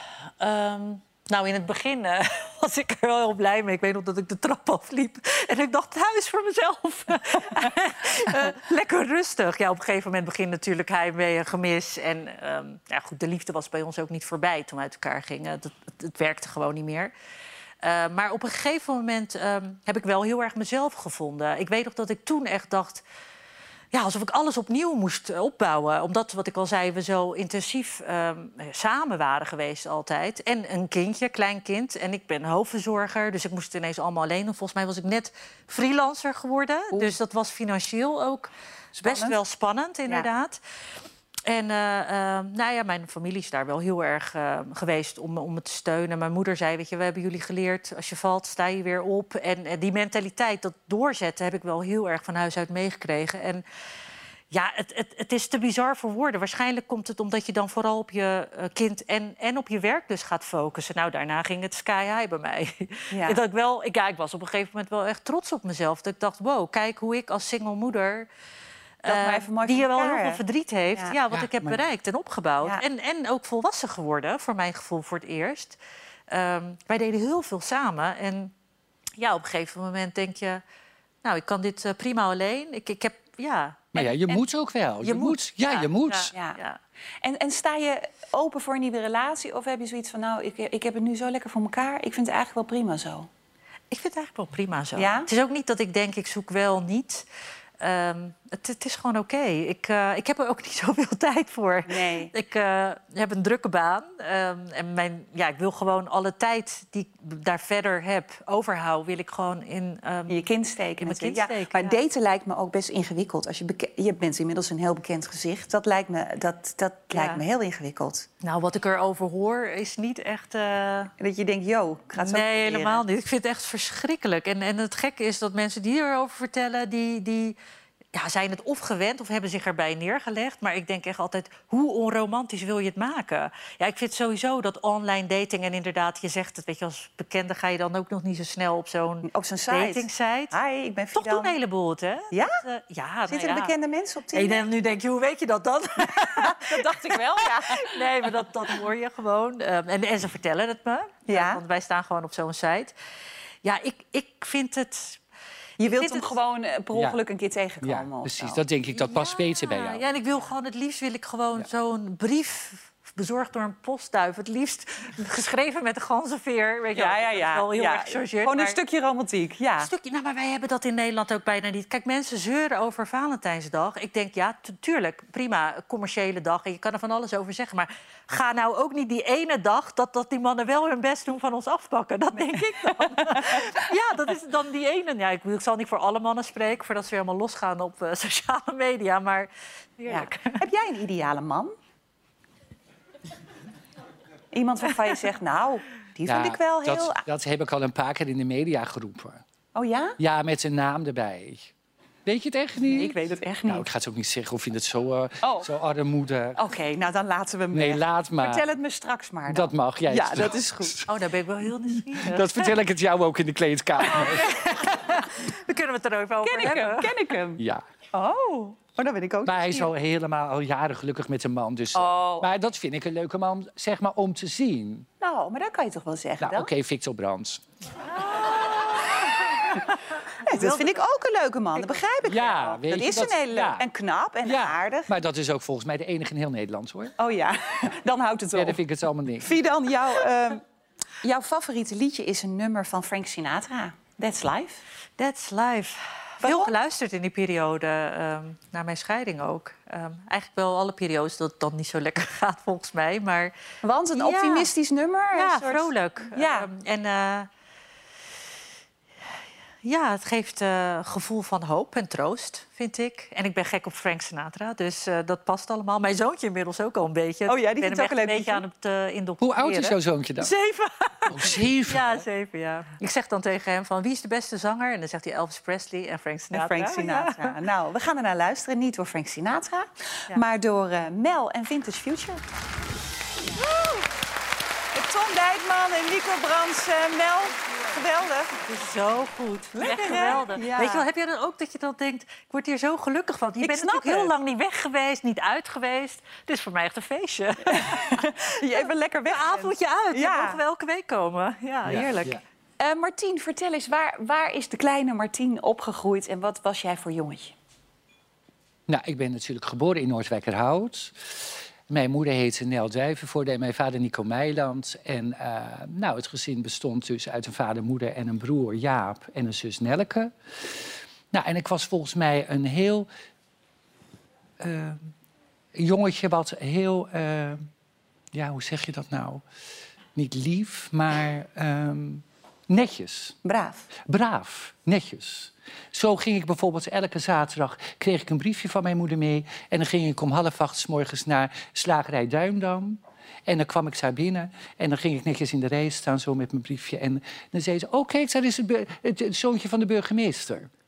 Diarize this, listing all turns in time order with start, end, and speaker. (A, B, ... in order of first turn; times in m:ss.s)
0:00.4-0:17.1 A
0:17.8-0:23.0 A
0:23.9-0:40.6 A
0:39.0-0:39.4 B
0:41.4-0:53.6 A
0:54.5-1:08.3 A
1:03.1-1:03.4 B
1:09.0-1:15.8 A
1:09.0-1:10.4 B
1:11.0-1:11.7 B
1:16.3-1:18.5 A
1:19.2-1:20.6 A
1:21.2-1:24.1 A
1:23.9-1:26.3 C
1:25.6-1:26.8 A
1:26.3-1:26.6 B
1:27.2-1:33.3 B
1:33.9-1:37.2 A
1:35.0-1:35.3 B
1:37.8-1:50.4 A
1:41.9-1:42.3 B
1:50.3-1:58.2 B
1:51.0-1:52.0 A
1:57.1-1:57.4 A
1:58.4-2:01.1 A
2:01.2-2:03.0 B
2:02.2-2:07.6 A
2:08.1-2:20.6 A
2:19.3-2:21.5 B
2:21.1-2:23.7 A
2:22.3-2:22.6 B
2:23.3-2:24.6 B
2:24.3-2:32.9 A
2:26.2-2:28.0 B
2:31.3-2:31.6 B
2:33.6-2:35.2 A
2:35.8-2:38.6 B
2:35.8-2:36.4 A
2:36.9-2:37.2 C
2:37.8-2:40.1 C
2:38.9-2:48.8 A
2:46.9-2:49.9 B
2:49.8-3:10.6 A
3:02.3-3:03.8 B
3:10.1-3:11.7 B
3:14.5-3:17.2 B
3:16.2-3:19.4 C
3:19.7-3:20.2 B
3:20.2-3:21.7 C
3:22.2-3:26.6 C
3:22.8-3:23.8 B
3:25.4-3:25.7 B
3:26.6-3:31.0 B
3:27.7-3:28.6 C
3:29.5-3:31.1 C
3:31.1-3:32.7 A
3:32.2-3:34.6 C
3:34.1-3:37.2 A
3:36.4-3:39.9 B
3:37.6-3:37.8 C
3:39.4-3:45.1 C
3:41.9-3:42.5 B
3:45.2-3:46.7 B
3:46.4-3:47.6 C
3:48.3-3:49.3 A
3:50.4-3:55.1 B
3:50.5-3:50.9 A
3:52.2-3:53.9 C
3:54.4-3:57.1 C
3:57.2-3:58.8 B
3:58.5-3:59.5 C
3:59.4-4:00.6 B
4:01.2-4:04.8 B
4:05.2-4:13.5 A
4:06.4-4:06.7 B
4:13.8-4:16.7 B
4:14.1-4:14.7 A
4:15.3-4:17.5 A
4:19.8-4:37.6 A
4:27.4-4:28.6 B
4:29.4-4:30.5 C
4:31.3-4:32.2 C
4:36.5-4:42.4 B
4:43.6-4:44.0 B
4:44.9-4:48.5 B
4:48.6-4:58.4 A
4:49.7-4:51.0 B
4:53.6-4:54.3 B
4:57.7-5:00.6 B
4:59.3-5:02.2 A
5:01.9-5:02.4 C
5:01.9-5:07.5 B
5:08.9-5:23.1 C
5:24.6-5:25.1 C
5:25.7-5:27.7 C
5:28.3-5:29.4 C
5:30.1-5:33.4 C
5:33.4-5:33.9 B
5:34.0-5:50.7 C